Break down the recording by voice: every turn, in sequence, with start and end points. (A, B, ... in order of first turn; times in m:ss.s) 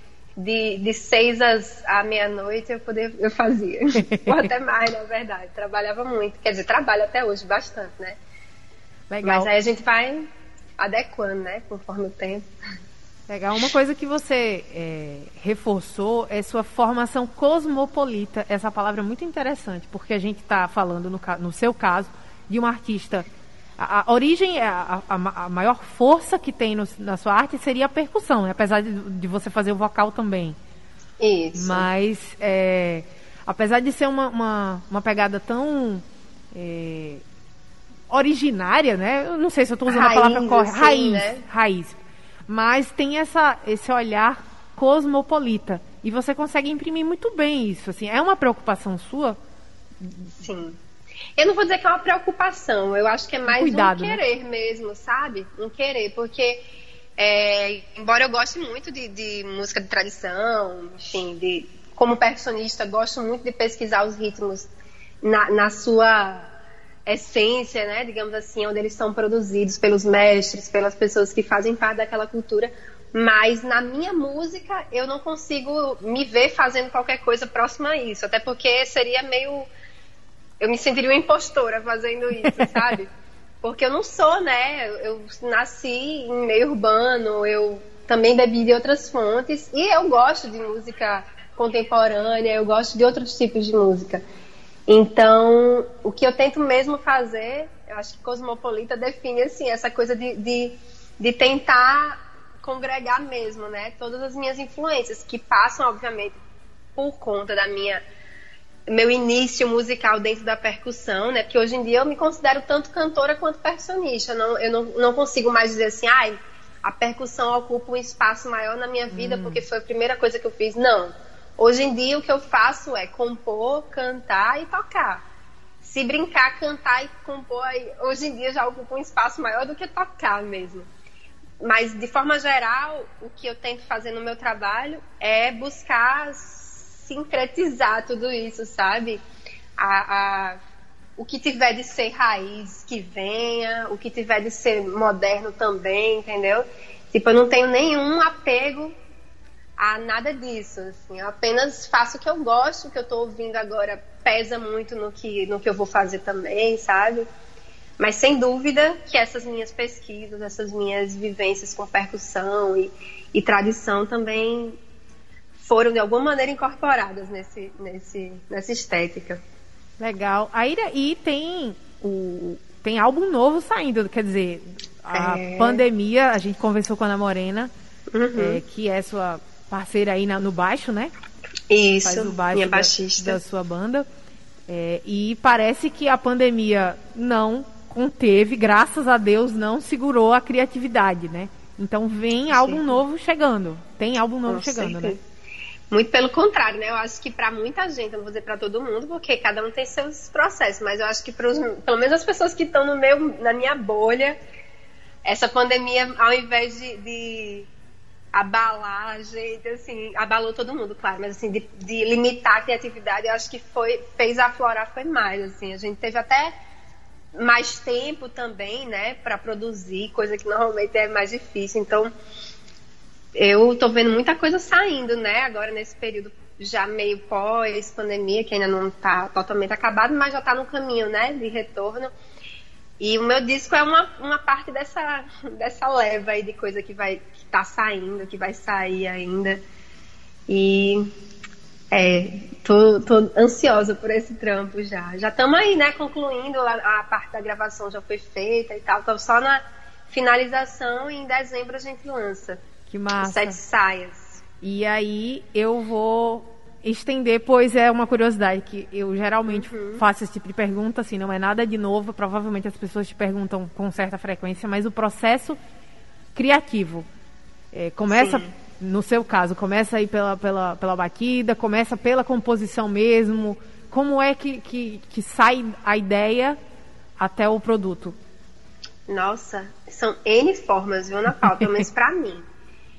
0:00.4-0:08.2 A
0:04.0-0:04.5 B
0:09.1-0:09.5 B
0:09.2-0:12.5 A
0:13.3-0:23.3 B
0:23.8-0:30.6 B
0:31.2-0:31.9 A
0:31.6-0:37.2 B
0:38.1-0:49.4 B
0:39.9-0:41.4 A
0:50.0-0:50.3 B
0:50.4-0:50.8 A
0:51.4-0:56.6 A
0:53.5-0:54.2 B
0:57.2-1:04.7 A
1:05.2-1:06.5 A
1:07.1-1:19.7 A
1:20.6-1:23.1 A
1:22.4-1:22.8 B
1:23.6-1:34.2 A
1:34.9-1:46.4 A
1:47.0-1:48.0 A
1:48.9-2:05.2 A
1:59.1-1:59.6 B
2:05.8-2:10.9 A
2:11.6-2:19.2 A
2:19.8-2:20.6 A
2:21.2-2:29.0 A
2:29.8-2:37.3 A
2:38.0-2:44.8 A
2:45.6-2:49.4 A
2:50.0-2:57.7 B
2:55.1-2:55.8 A
2:58.1-2:58.6 A
2:58.4-3:01.1 B
3:01.7-3:03.4 A
3:02.0-3:04.1 B
3:04.7-3:15.2 B
3:12.5-3:12.9 A
3:14.5-3:15.2 A
3:15.9-3:24.4 A
3:25.2-3:27.7 A
3:28.3-3:36.5 A
3:37.3-3:42.1 A
3:43.3-3:52.1 A
3:53.0-3:59.6 A
4:00.5-4:01.1 A
4:01.9-4:12.6 A
4:12.9-4:13.6 B
4:13.2-4:14.4 A
4:14.6-4:25.6 B
4:19.5-4:20.0 A
4:26.4-4:27.1 B
4:27.7-4:36.6 B
4:28.1-4:28.5 A
4:37.2-4:38.2 B
4:39.1-4:42.5 A
4:41.4-4:41.8 B